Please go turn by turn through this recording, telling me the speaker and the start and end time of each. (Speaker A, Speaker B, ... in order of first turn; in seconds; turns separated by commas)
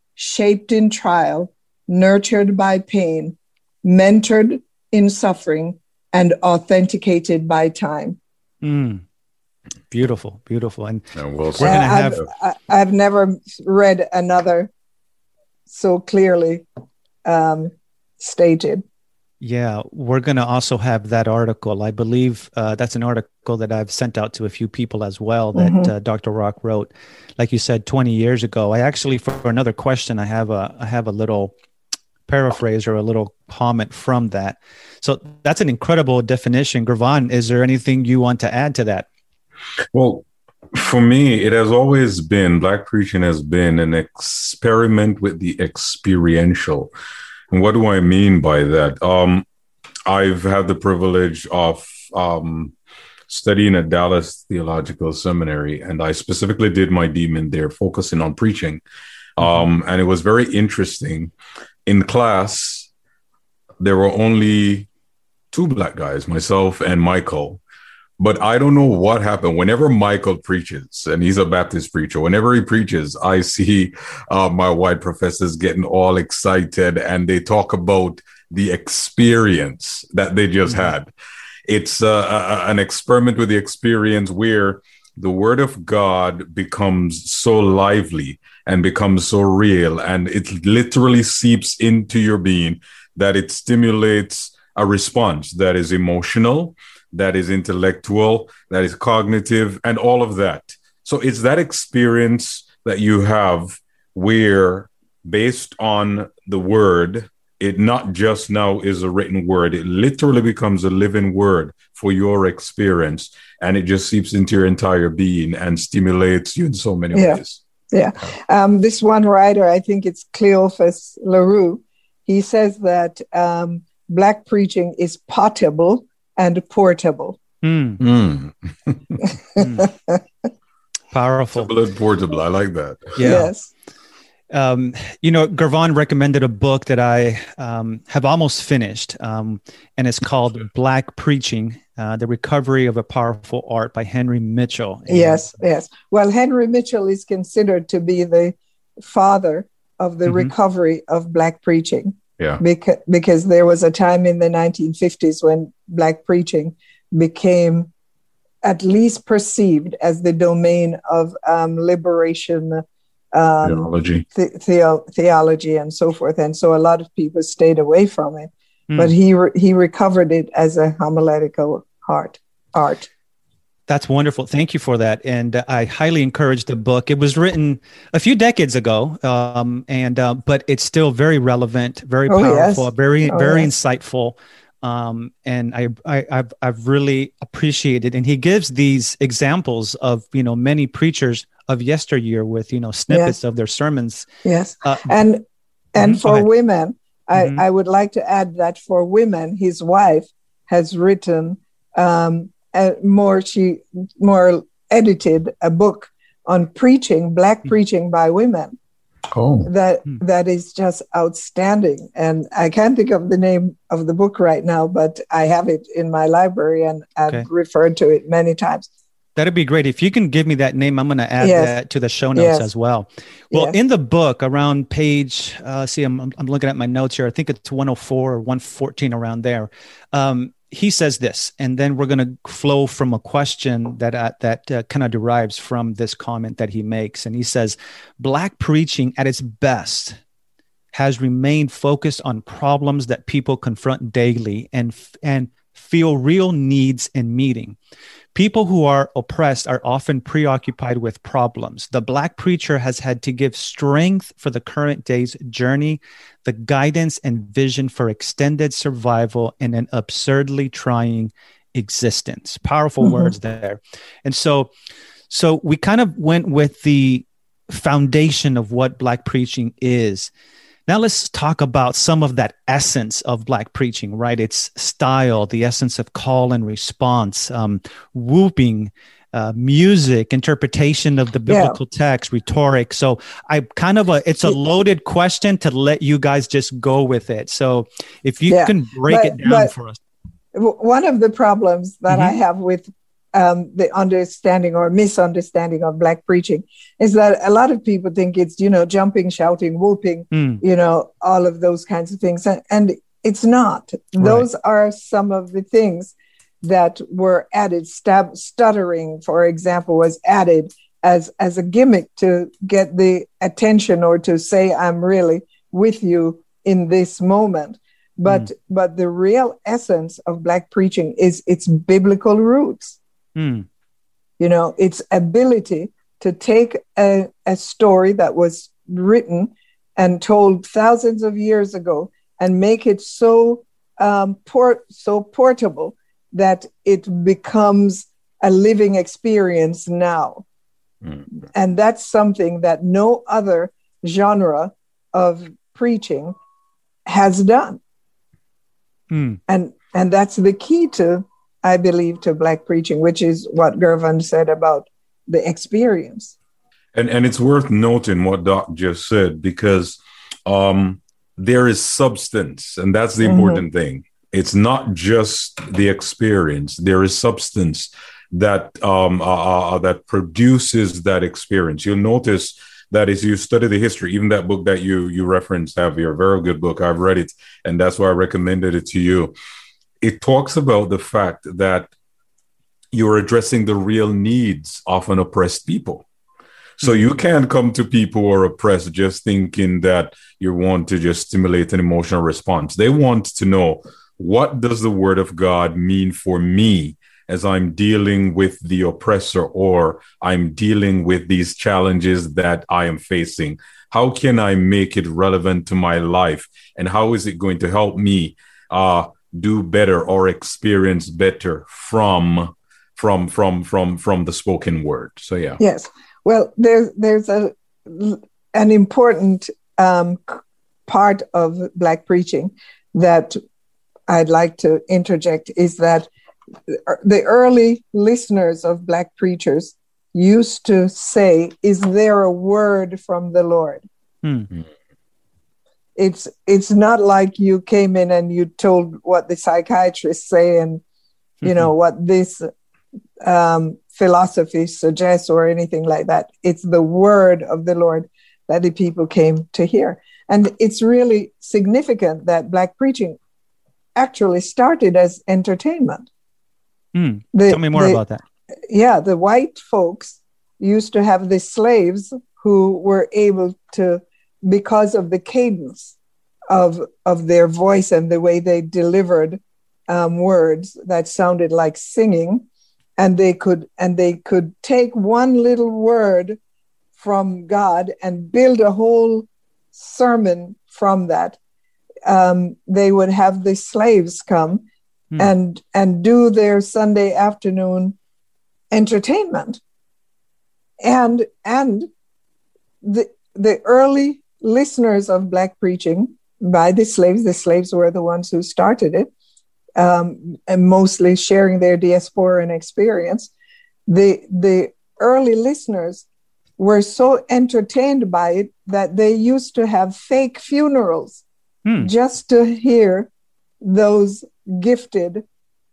Speaker A: 0.2-8.2, Speaker B: 8.6-9.0, Speaker B: 9.9-11.0, Speaker C: 11.1-12.2, Speaker B: 11.6-12.2, Speaker A: 11.6-14.7, Speaker A: 15.7-16.6, Speaker A: 17.2-18.8, Speaker B: 19.4-31.5, Speaker A: 25.5-25.9, Speaker B: 32.3-39.1, Speaker C: 39.9-46.9, Speaker C: 47.5-49.4, Speaker C: 50.0-52.7, Speaker C: 53.3-58.8, Speaker C: 59.4-61.3, Speaker C: 61.9-62.9, Speaker C: 63.8-64.9, Speaker C: 65.5-67.6, Speaker C: 68.2-81.1, Speaker C: 81.7-117.6, Speaker A: 117.1-117.4, Speaker A: 117.9-127.4, Speaker B: 127.6-128.0, Speaker C: 128.0-129.2, Speaker A: 129.5-130.2, Speaker B: 129.6-129.8, Speaker B: 131.1-131.7, Speaker C: 131.5-133.4, Speaker B: 133.2-133.5, Speaker A: 133.2-133.7, Speaker B: 134.5-145.5, Speaker A: 145.1-157.9, Speaker A: 158.6-173.1, Speaker C: 163.6-164.2, Speaker B: 173.9-194.3, Speaker A: 182.3-183.7, Speaker A: 193.1-193.3, Speaker A: 194.4-195.4, Speaker B: 194.8-195.1, Speaker A: 195.9-208.8, Speaker B: 196.0-196.4, Speaker B: 197.3-197.6, Speaker C: 209.3-209.7, Speaker A: 209.6-218.9, Speaker B: 219.3-240.2, Speaker A: 221.4-221.8, Speaker A: 222.3-222.7, Speaker A: 223.5-223.8, Speaker B: 240.9-247.8, Speaker B: 248.3-264.7, Speaker A: 263.0-263.3, Speaker B: 265.3-270.3, Speaker B: 270.9-290.0, Speaker A: 281.5-281.8, Speaker A: 288.5-289.7, Speaker A: 290.5-323.0, Speaker B: 292.1-292.3, Speaker B: 300.3-300.6, Speaker B: 304.2-304.4, Speaker B: 323.4-323.6, Speaker A: 324.4-340.4, Speaker A: 341.5-346.4, Speaker A: 347.1-347.8, Speaker B: 349.1-349.4, Speaker A: 349.5-356.3, Speaker C: 356.9-379.3, Speaker A: 363.2-363.6, Speaker C: 380.0-381.9, Speaker C: 382.9-386.1, Speaker C: 386.8-415.6, Speaker A: 415.6-423.4, Speaker A: 424.1-426.1, Speaker A: 426.7-433.8, Speaker B: 434.2-434.5, Speaker A: 435.9-440.8, Speaker B: 441.4-441.7, Speaker A: 441.4-442.5, Speaker A: 443.2-453.2, Speaker A: 453.9-456.1, Speaker B: 456.9-458.2, Speaker A: 457.3-458.0, Speaker A: 458.7-465.9, Speaker A: 466.5-472.4, Speaker A: 473.0-476.4, Speaker A: 476.9-481.4, Speaker A: 482.1-484.6, Speaker A: 485.2-487.9, Speaker A: 488.7-489.6, Speaker A: 490.8-491.9, Speaker A: 492.8-499.1, Speaker A: 499.8-503.3, Speaker A: 503.9-506.0, Speaker A: 506.6-511.2, Speaker B: 511.6-511.9, Speaker A: 511.8-513.1, Speaker A: 513.6-515.2